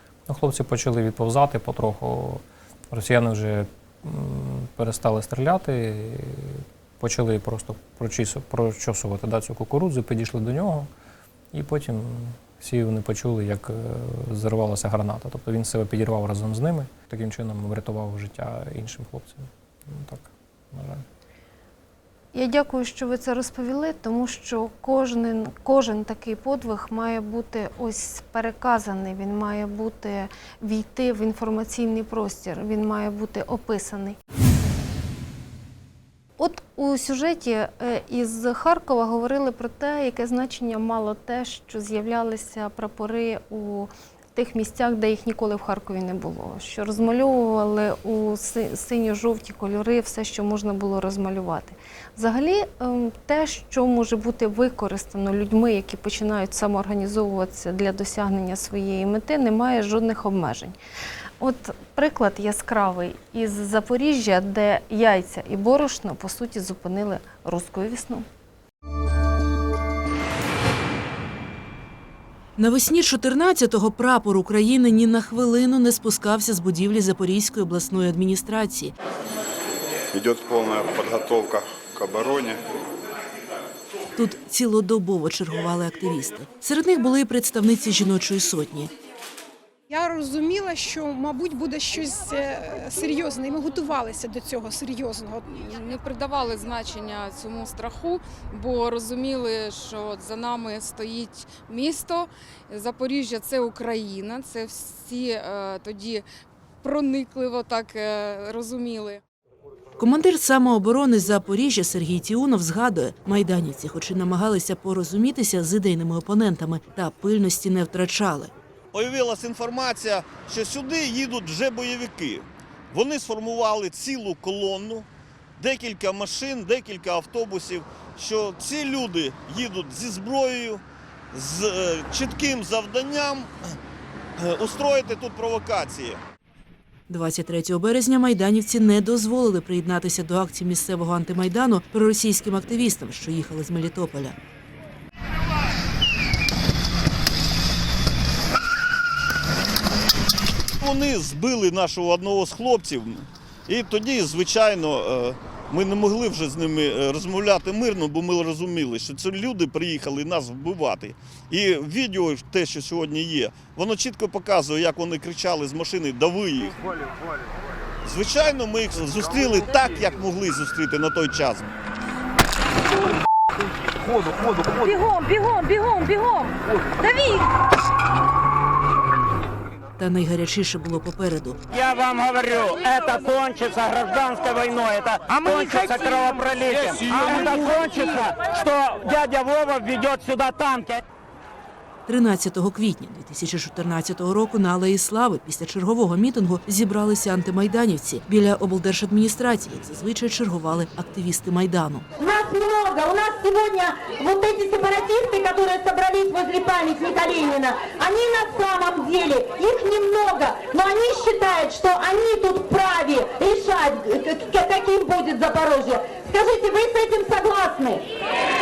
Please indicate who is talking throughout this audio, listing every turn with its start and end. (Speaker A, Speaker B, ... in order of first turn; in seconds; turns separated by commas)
Speaker A: 0.3-10.9, Speaker A: 11.5-21.0, Speaker B: 22.3-34.2, Speaker B: 36.4-60.8, Speaker B: 61.4-68.3, Speaker C: 72.6-78.9, Speaker D: 80.1-82.6, Speaker C: 84.1-88.9, Speaker E: 89.9-95.7, Speaker F: 95.7-106.2, Speaker F: 106.8-109.2, Speaker C: 110.0-118.5, Speaker G: 118.9-133.5, Speaker G: 134.4-136.2, Speaker C: 137.1-144.3, Speaker G: 150.8-166.8, Speaker G: 168.0-171.7, Speaker H: 174.8-177.5, Speaker C: 180.0-181.6, Speaker H: 181.7-191.0, Speaker C: 187.1-188.0, Speaker C: 192.1-202.1, Speaker I: 202.2-218.1